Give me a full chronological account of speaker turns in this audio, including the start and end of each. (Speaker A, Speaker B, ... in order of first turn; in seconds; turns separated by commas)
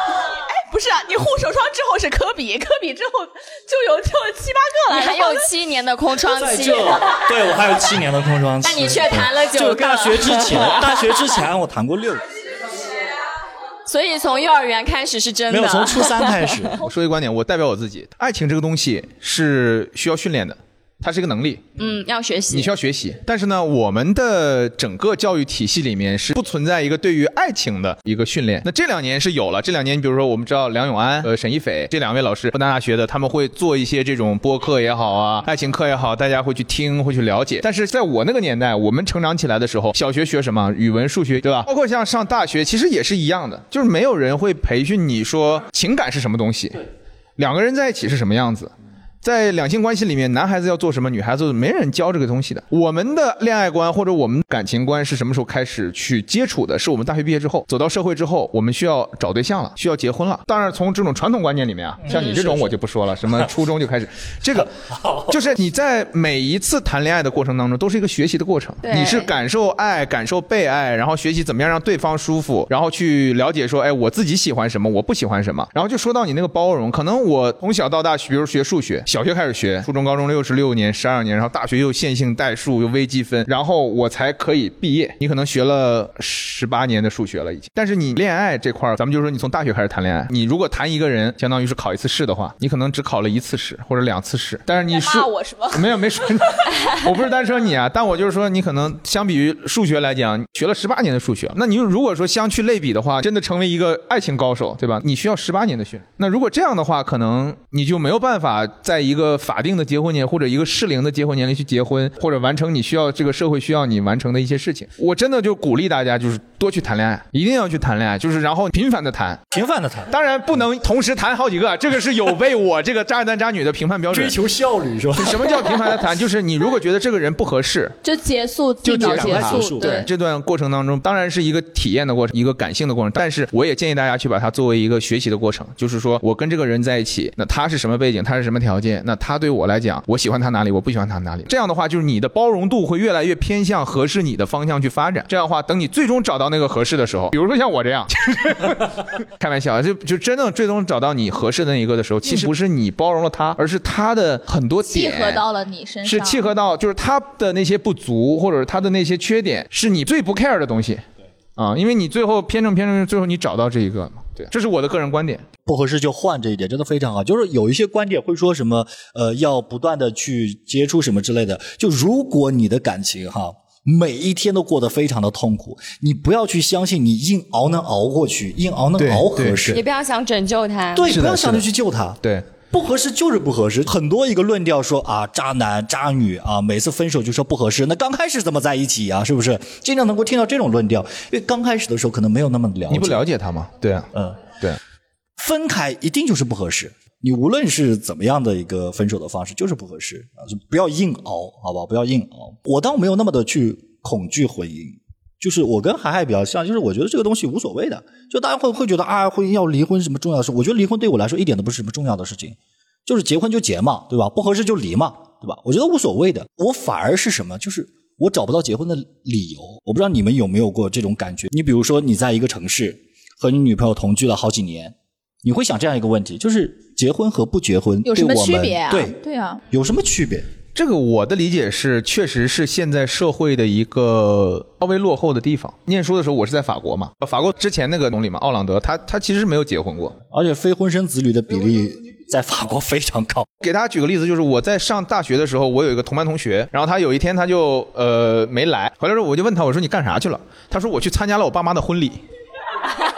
Speaker A: 0.2-5.5, Speaker B: 4.9-7.4, Speaker C: 6.2-12.2, Speaker B: 8.6-11.4, Speaker B: 13.8-16.8, Speaker C: 15.5-16.8, Speaker D: 16.8-21.6, Speaker B: 21.8-22.7, Speaker D: 22.5-48.7, Speaker D: 49.2-64.7, Speaker B: 62.1-62.4, Speaker C: 62.1-62.7, Speaker C: 64.6-65.4, Speaker D: 65.3-119.4, Speaker B: 68.8-69.3, Speaker A: 94.9-96.7, Speaker C: 119.5-120.1, Speaker D: 120.1-124.3, Speaker C: 124.1-125.9, Speaker D: 125.2-127.9, Speaker A: 128.0-130.1, Speaker D: 128.8-155.4, Speaker C: 128.9-130.0, Speaker A: 154.8-156.5, Speaker D: 156.0-161.0, Speaker D: 161.6-165.4, Speaker C: 165.6-179.8, Speaker D: 179.0-179.8, Speaker B: 179.7-181.1, Speaker C: 180.9-193.3, Speaker D: 181.1-181.7, Speaker D: 182.2-182.5, Speaker D: 192.9-194.8, Speaker C: 194.1-194.5, Speaker C: 195.4-229.2, Speaker A: 228.1-229.6, Speaker C: 229.7-230.5, Speaker D: 230.7-240.2, Speaker C: 240.3-243.5, Speaker D: 243.6-252.2